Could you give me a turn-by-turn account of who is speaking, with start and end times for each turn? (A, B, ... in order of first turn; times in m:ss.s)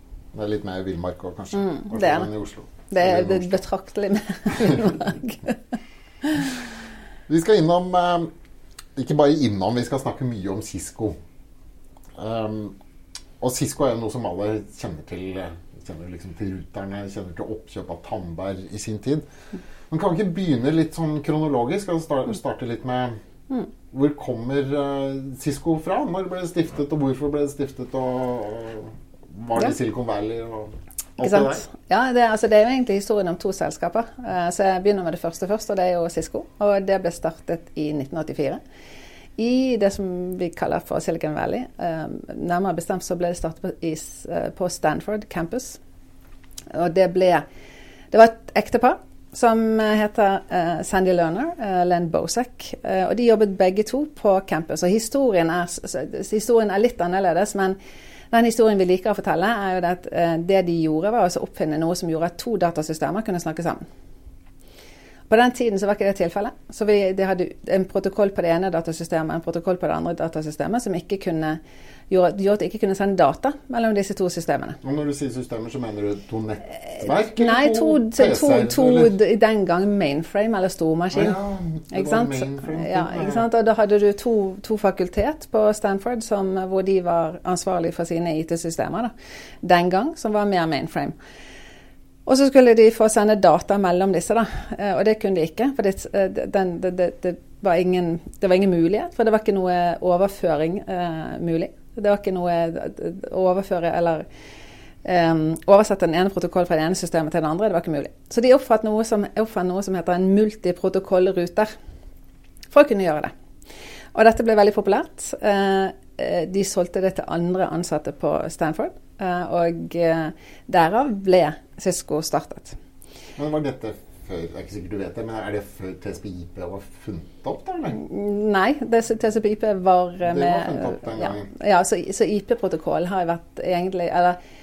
0:00.3-0:03.6 A
0:01.5-0:02.3 B
0:02.9-0:05.6 B
0:06.2-0:06.5 B
0:07.3-0:08.3 A
0:09.0-0:11.2 A
0:12.2-0:12.8 A
0:13.4-0:19.2 A
0:19.9-0:23.2 A
0:23.9-0:31.6 A
0:31.2-0:38.6 B
0:39.4-0:45.8 B
0:46.7-0:47.4 B
0:48.1-0:57.8 B
0:58.3-1:03.8 B
1:05.3-1:14.8 B
1:14.8-1:19.1 A
1:16.9-1:21.4 B
1:21.1-1:23.4 A
1:21.9-1:31.1 B
1:32.2-1:44.2 B
1:45.0-1:51.7 B
1:52.7-1:53.3 B
1:54.1-2:02.8 B
2:03.4-2:08.0 A
2:07.9-2:14.4 B
2:10.2-2:11.5 A